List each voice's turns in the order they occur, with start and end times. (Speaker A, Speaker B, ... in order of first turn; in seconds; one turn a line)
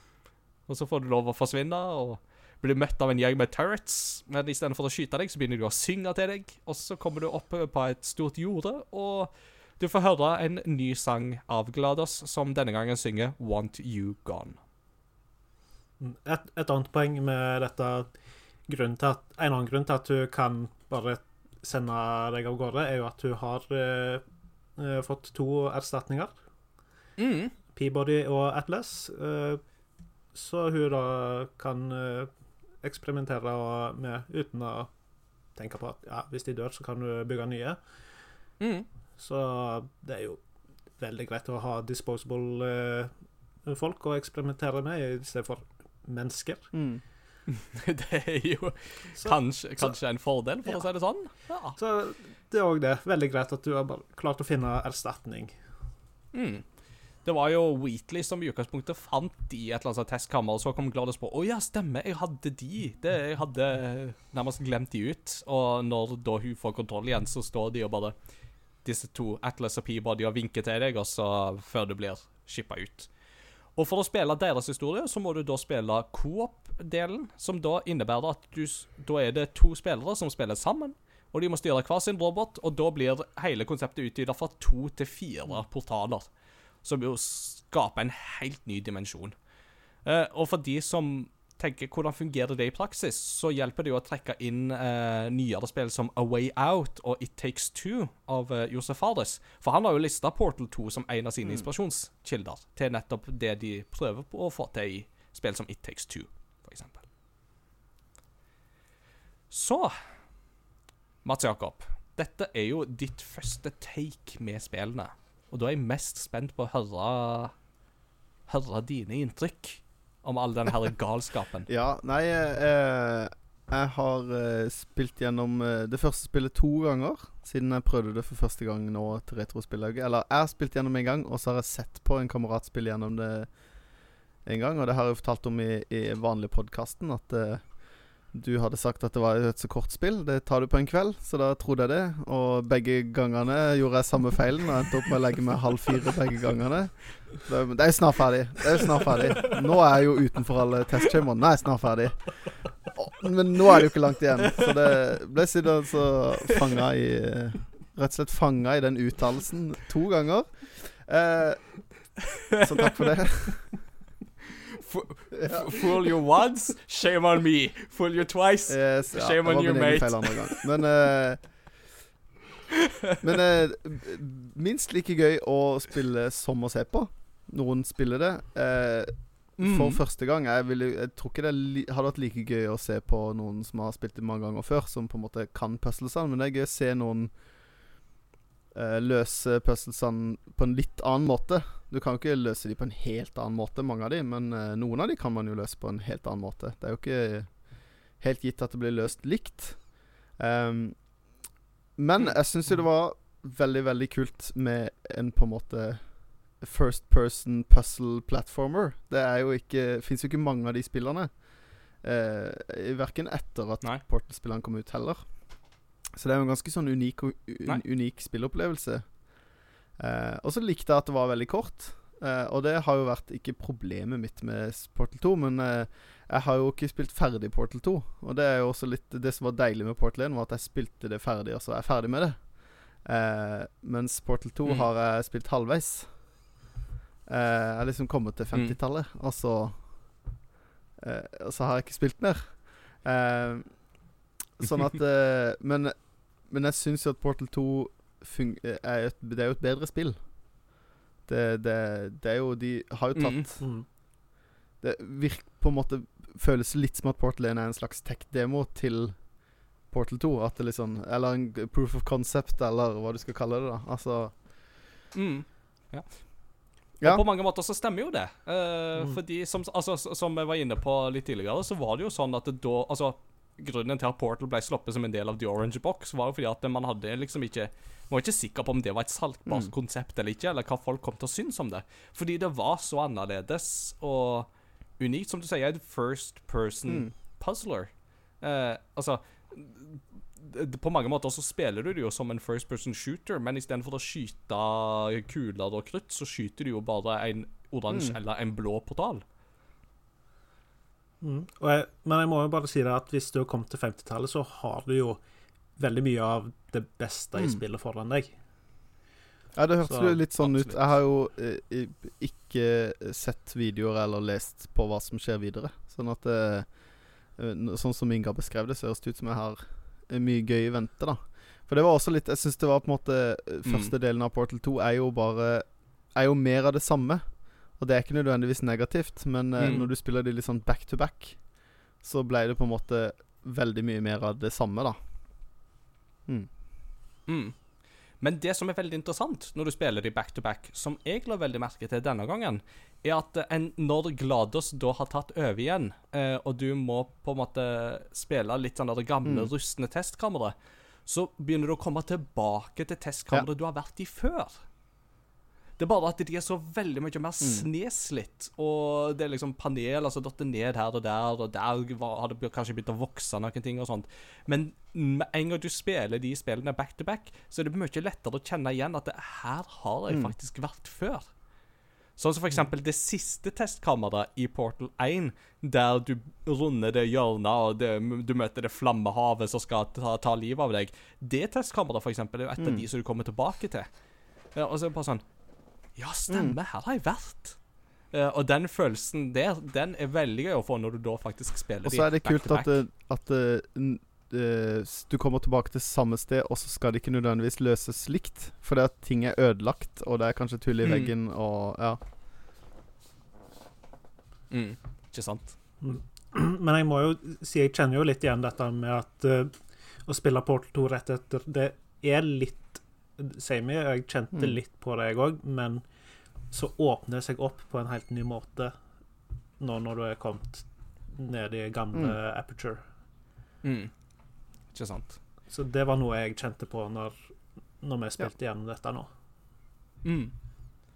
Speaker A: 0.7-14.6
Speaker B: 16.0-18.1
Speaker B: 18.7-24.2
Speaker B: 24.8-26.3
Speaker A: 27.2-27.5
Speaker B: 27.7-29.6
Speaker B: 30.3-32.3
Speaker B: 32.8-34.9
Speaker B: 35.5-37.8
Speaker A: 38.6-38.9
Speaker B: 39.2-40.4
Speaker B: 41.0-43.1
Speaker B: 43.6-46.7
Speaker C: 46.7-47.0
Speaker A: 47.5-51.8
Speaker B: 49.2-49.9
Speaker B: 51.8-55.5
Speaker A: 56.3-56.6
Speaker A: 57.2-68.2
Speaker A: 68.8-73.1
Speaker A: 73.8-86.3
Speaker A: 86.8-89.4
Speaker A: 90.0-107.0
Speaker A: 109.5-109.9
Speaker A: 111.2-117.5
Speaker A: 118.5-121.7
Speaker C: 121.7-133.5
Speaker C: 134.4-163.8
Speaker A: 164.8-170.6
Speaker C: 165.3-165.8
Speaker C: 168.7-171.5
Speaker C: 173.2-187.3
Speaker A: 179.6-180.0
Speaker C: 188.7-201.0
Speaker C: 202.0-211.4
Speaker C: 212.0-215.5
Speaker C: 216.1-219.2
Speaker C: 220.0-236.4
Speaker C: 237.3-240.2
Speaker C: 241.0-250.2
Speaker C: 251.3-253.7
Speaker A: 253.2-253.5
Speaker B: 253.6-253.9
Speaker C: 254.8-264.5
Speaker A: 265.1-299.2
Speaker B: 301.2-305.2
Speaker B: 305.8-308.3
Speaker C: 309.6-316.7
Speaker B: 309.9-310.1
Speaker A: 310.4-311.0
Speaker C: 317.3-335.0
Speaker A: 323.6-323.9
Speaker A: 329.6-329.9
Speaker A: 337.3-337.6
Speaker A: 338.2-354.6
Speaker C: 349.2-349.5
Speaker A: 355.8-371.3
Speaker A: 372.2-383.9
Speaker C: 382.6-382.8
Speaker A: 384.6-385.2
Speaker A: 386.0-387.6
Speaker C: 386.3-386.6
Speaker A: 388.1-392.8
Speaker C: 391.8-402.0
Speaker A: 400.8-401.1
Speaker A: 404.5-405.6
Speaker B: 405.8-409.6
Speaker B: 410.1-415.8
Speaker B: 416.5-418.7
Speaker B: 419.6-422.8
Speaker A: 423.6-423.9
Speaker A: 424.7-425.2
Speaker B: 425.5-427.2
Speaker B: 427.8-429.1
Speaker A: 430.0-430.3